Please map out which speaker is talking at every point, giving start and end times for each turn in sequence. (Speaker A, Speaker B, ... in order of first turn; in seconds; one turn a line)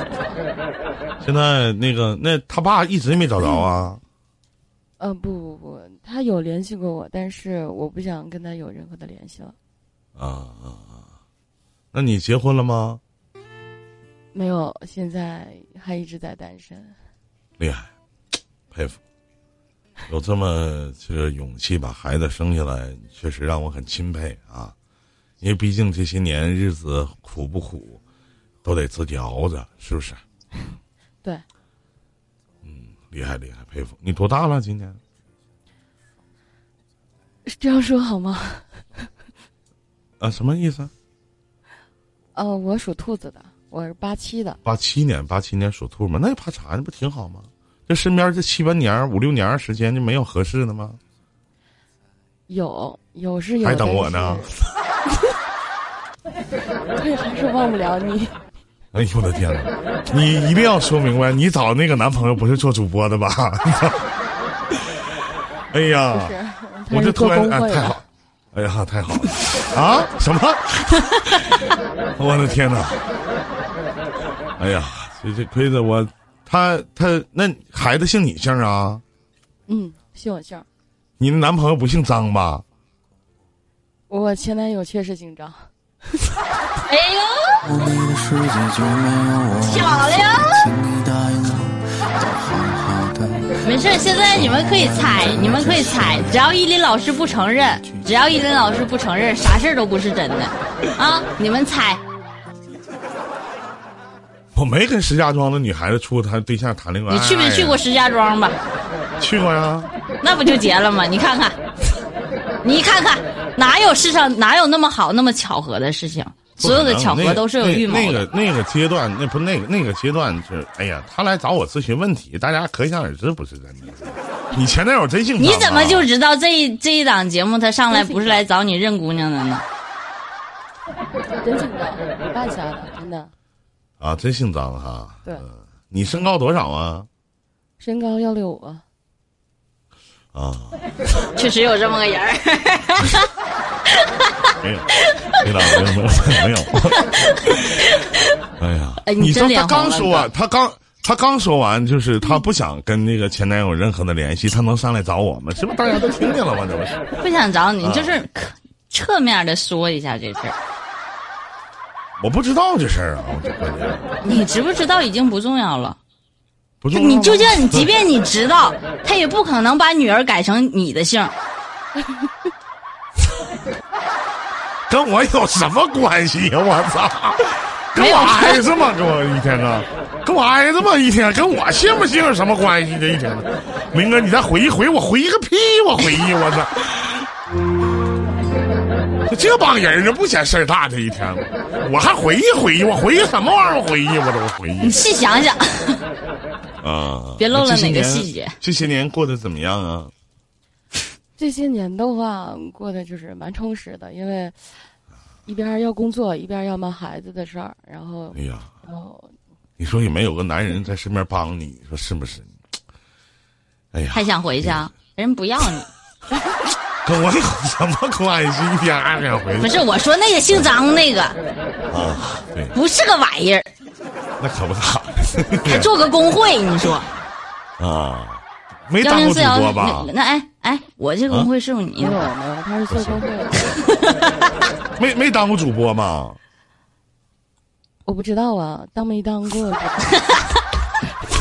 Speaker A: 1.2-4.0
Speaker B: 5.0-9.5
Speaker A: 10.2-11.0
Speaker A: 11.9-13.0
Speaker B: 14.3-16.9
Speaker A: 17.6-17.9
Speaker A: 18.7-19.0
Speaker A: 20.1-24.7
Speaker A: 25.4-28.0
Speaker A: 28.6-30.2
Speaker A: 32.6-35.0
Speaker B: 37.5-38.7
Speaker A: 40.2-40.9
Speaker B: 42.3-44.6
Speaker A: 44.6-51.0
Speaker B: 52.5-54.5
Speaker A: 53.6-54.5
Speaker B: 57.0-58.3
Speaker A: 58.9-64.1
Speaker A: 64.8-65.0
Speaker A: 65.7-66.3
Speaker B: 66.1-68.0
Speaker A: 66.9-71.7
Speaker A: 72.2-73.0
Speaker A: 74.6-79.0
Speaker B: 79.7-80.6
Speaker A: 81.2-82.6
Speaker B: 84.1-85.7
Speaker C: 86.8-87.6
Speaker D: 87.8-89.7
Speaker C: 89.6-90.7
Speaker D: 90.7-93.5
Speaker C: 93.6-102.0
Speaker A: 104.5-107.8
Speaker C: 107.1-108.6
Speaker A: 109.2-109.9
Speaker C: 110.2-111.6
Speaker C: 112.6-118.2
Speaker A: 116.6-126.1
Speaker C: 125.4-129.7
Speaker B: 127.9-128.4
Speaker B: 131.4-133.3
Speaker A: 134.0-137.1
Speaker B: 137.8-138.8
Speaker A: 140.3-140.8
Speaker C: 141.3-143.3
Speaker A: 144.6-147.0
Speaker C: 146.7-148.3
Speaker A: 148.6-157.0
Speaker C: 149.0-150.3
Speaker C: 157.2-160.6
Speaker A: 157.8-158.2
Speaker A: 162.2-164.2
Speaker C: 164.2-166.0
Speaker A: 166.8-167.9
Speaker C: 166.9-171.3
Speaker A: 174.9-187.3
Speaker C: 177.9-178.6
Speaker A: 189.3-195.0
Speaker C: 194.8-196.0
Speaker A: 196.8-200.1
Speaker C: 197.4-198.5
Speaker B: 201.4-204.7
Speaker B: 205.4-209.3
Speaker A: 208.3-208.7
Speaker A: 209.8-212.5
Speaker A: 213.9-214.9
Speaker C: 214.1-215.9
Speaker A: 217.0-219.7
Speaker C: 219.6-221.4
Speaker A: 221.9-222.7
Speaker C: 222.7-223.7
Speaker A: 224.4-225.9
Speaker C: 225.6-227.1
Speaker A: 227.8-230.1
Speaker C: 229.0-232.3
Speaker B: 232.0-233.7
Speaker A: 232.9-233.2
Speaker C: 233.8-234.3
Speaker A: 235.0-236.4
Speaker B: 238.0-240.3